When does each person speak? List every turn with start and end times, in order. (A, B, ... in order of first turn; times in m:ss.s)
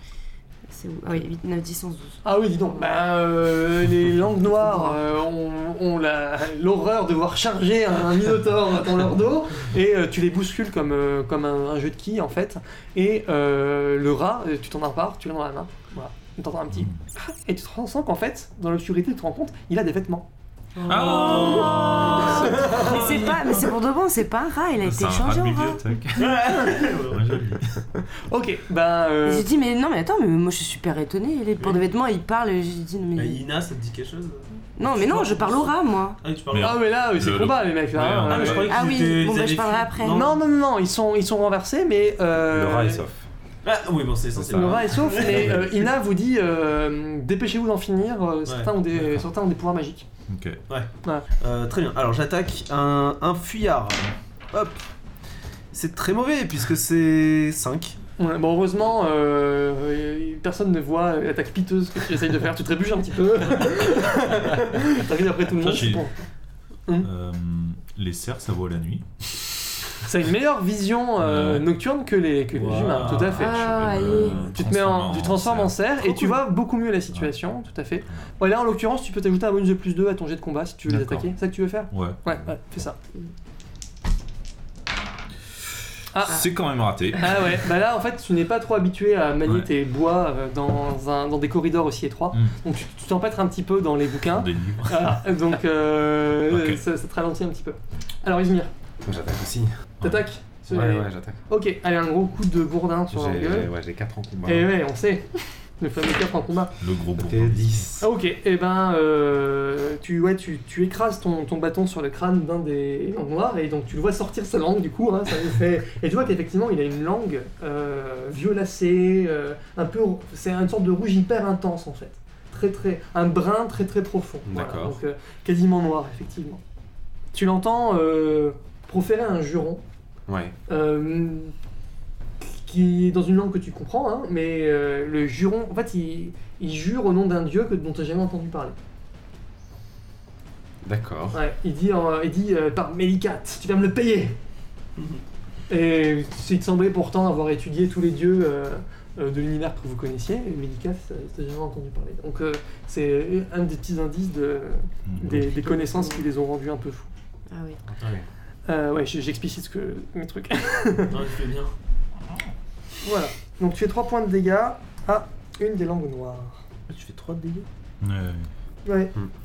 0:00.7-0:02.2 A
0:02.2-0:20.3 B
0:04.6-0:05.0 A
0:16.7-0:17.0 C
0:20.9-0:23.6 C
0:20.9-0:23.0 B
0:21.1-0:22.8 D
0:22.2-0:25.8 A
0:24.8-0:27.6 C
0:26.2-0:27.6 D
0:28.3-0:29.5 B
0:29.2-0:33.4 A
0:31.6-0:31.8 D
0:33.1-0:35.5 D
0:34.8-0:36.2 A
0:35.1-0:35.6 B
0:36.2-0:36.8 D
0:36.5-0:38.8 C
0:36.6-0:38.6 B
0:38.3-0:40.4 D
0:38.6-0:40.3 A
0:40.1-0:43.1 B
0:42.5-0:43.2 E
0:43.6-0:45.6 D
0:44.4-0:45.6 E
0:44.5-0:50.1 B
0:48.5-0:48.8 D
0:50.3-0:50.6 C
0:50.7-0:54.8 D
0:55.7-0:58.0 D
0:58.2-1:06.1 B
1:05.6-1:06.0 C
1:07.0-1:09.0 C
1:10.0-1:13.8 B
1:11.2-1:11.7 C
1:12.5-1:14.4 D
1:13.0-1:15.9 C
1:13.4-1:14.6 A
1:14.4-1:23.0 B
1:16.0-1:16.4 A
1:20.8-1:21.3 C
1:21.9-1:22.4 C
1:26.1-1:26.5 B
1:26.2-1:27.6 C
1:27.1-1:38.7 B
1:34.3-1:35.1 C
1:36.5-1:36.8 C
1:39.0-1:39.7 E
1:40.0-1:43.7 B
1:40.7-1:41.4 E
1:43.1-1:44.7 E
1:44.4-1:46.8 B
1:46.8-1:48.0 C
1:47.2-1:48.0 E
1:48.0-2:06.6 B
2:04.5-2:05.0 E
2:07.3-2:09.8 B
2:10.3-2:10.5 E
2:10.7-2:11.5 B
2:12.4-2:18.8 B
2:20.8-2:21.4 E
2:21.3-2:24.4 B
2:25.7-2:37.1 B
2:35.1-2:35.4 C
2:35.4-2:36.2 A
2:37.5-2:37.8 A
2:38.0-2:38.2 D
2:38.7-2:41.2 B
2:41.1-2:41.8 D
2:43.0-2:46.6 B
2:46.9-2:47.7 D
2:48.0-2:48.5 C
2:48.8-2:49.1 B